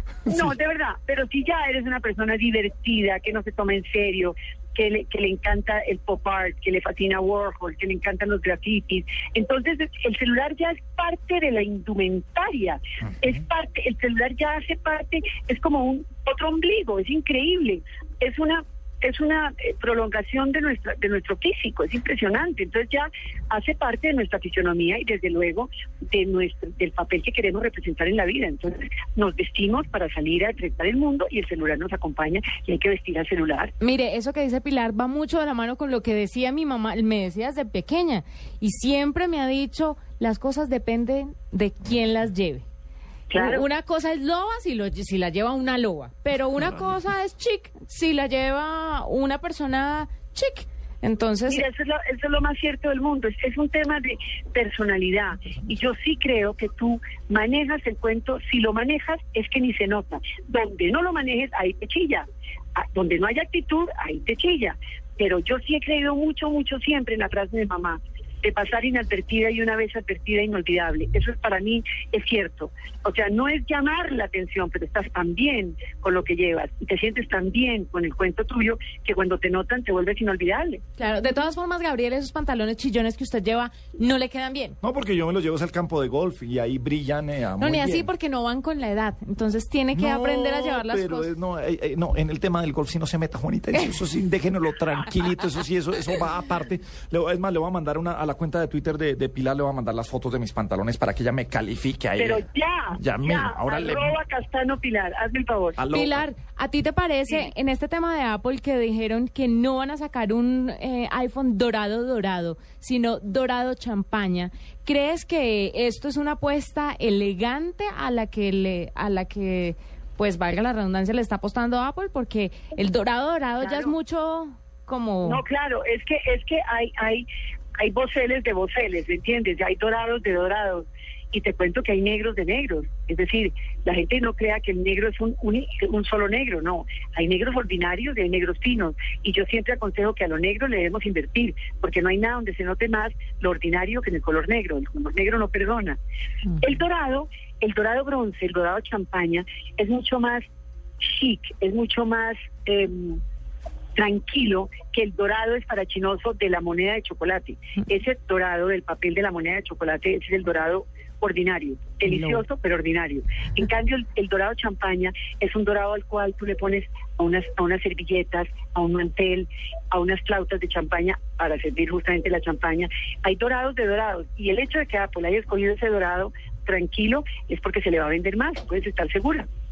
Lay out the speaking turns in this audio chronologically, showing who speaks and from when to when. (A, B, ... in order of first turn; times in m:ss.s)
0:00.3-0:00.5 A
0:00.3-0:33.7 B
0:33.8-0:42.6 C
0:43.3-0:43.7 B
0:43.3-0:51.6 C
0:51.5-1:20.8 B
1:21.0-1:24.8 C
1:24.8-1:28.1 A
1:27.6-1:31.3 C
1:29.9-1:44.1 A
1:42.2-1:45.8 B
1:45.8-1:46.2 A
1:45.9-2:05.4 C
2:03.6-2:04.0 B
2:05.2-2:07.3 B
2:07.8-2:26.0 B
2:26.6-2:30.4 B
2:31.0-2:33.2 B
2:34.0-2:59.5 B
2:42.0-2:42.4 C